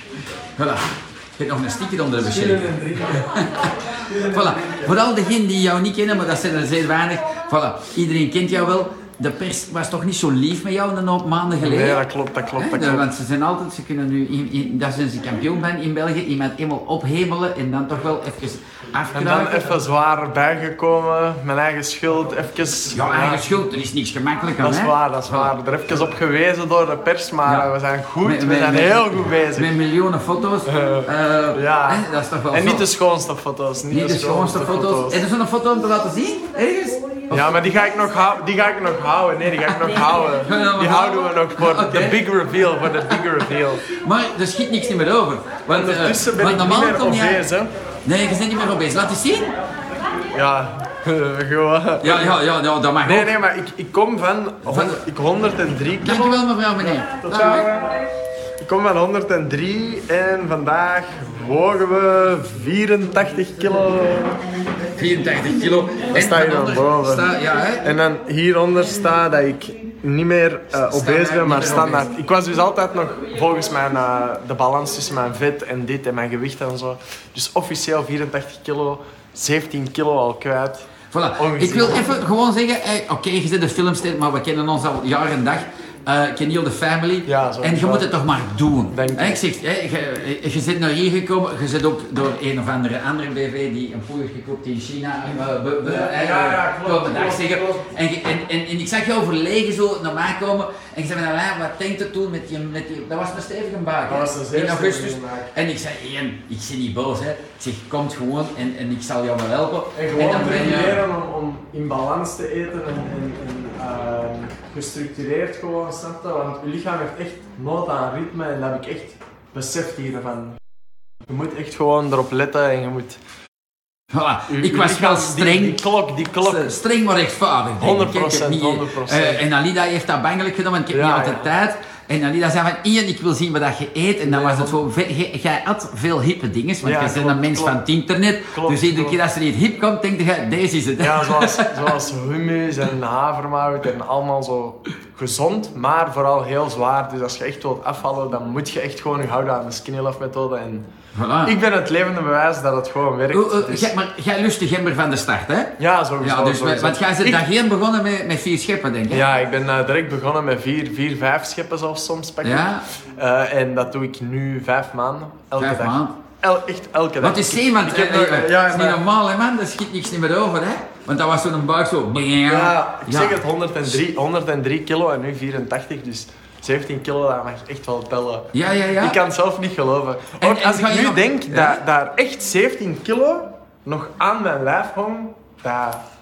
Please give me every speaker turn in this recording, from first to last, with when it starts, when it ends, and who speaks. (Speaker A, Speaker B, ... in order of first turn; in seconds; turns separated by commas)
Speaker A: 0.6-12.0, Speaker B: 2.2-4.9, Speaker B: 11.6-13.1, Speaker A: 12.6-19.8, Speaker B: 19.1-23.4, Speaker A: 22.9-25.5, Speaker B: 24.6-29.7, Speaker A: 28.2-32.9, Speaker B: 30.6-35.2, Speaker A: 33.9-37.6, Speaker B: 37.3-43.8, Speaker A: 40.3-42.2, Speaker A: 43.8-47.4, Speaker B: 45.7-47.7, Speaker A: 48.0-49.5, Speaker B: 50.3-52.4, Speaker A: 52.0-53.3, Speaker B: 53.0-58.1, Speaker A: 54.6-55.0, Speaker A: 56.0-57.7, Speaker B: 58.6-64.4, Speaker A: 64.9-67.9, Speaker B: 66.1-82.1, Speaker A: 70.8-72.1, Speaker A: 81.1-111.0, Speaker B: 87.2-88.1, Speaker B: 88.9-89.4, Speaker B: 95.8-97.9, Speaker B: 104.0-105.5, Speaker B: 109.9-120.6, Speaker B: 121.3-123.2, Speaker A: 124.1-125.9, Speaker B: 124.5-126.8, Speaker A: 126.4-141.9, Speaker B: 127.8-129.5, Speaker B: 130.9-131.5, Speaker B: 134.2-134.8, Speaker B: 136.8-137.8, Speaker B: 138.5-139.2, Speaker B: 141.0-150.8, Speaker A: 151.1-151.6, Speaker B: 151.4-153.9, Speaker A: 153.3-159.2, Speaker B: 155.8-157.4, Speaker B: 159.1-169.0, Speaker A: 162.4-162.8, Speaker A: 165.6-166.2, Speaker A: 167.2-173.4, Speaker B: 172.4-186.0, Speaker A: 178.5-179.2, Speaker A: 180.4-181.8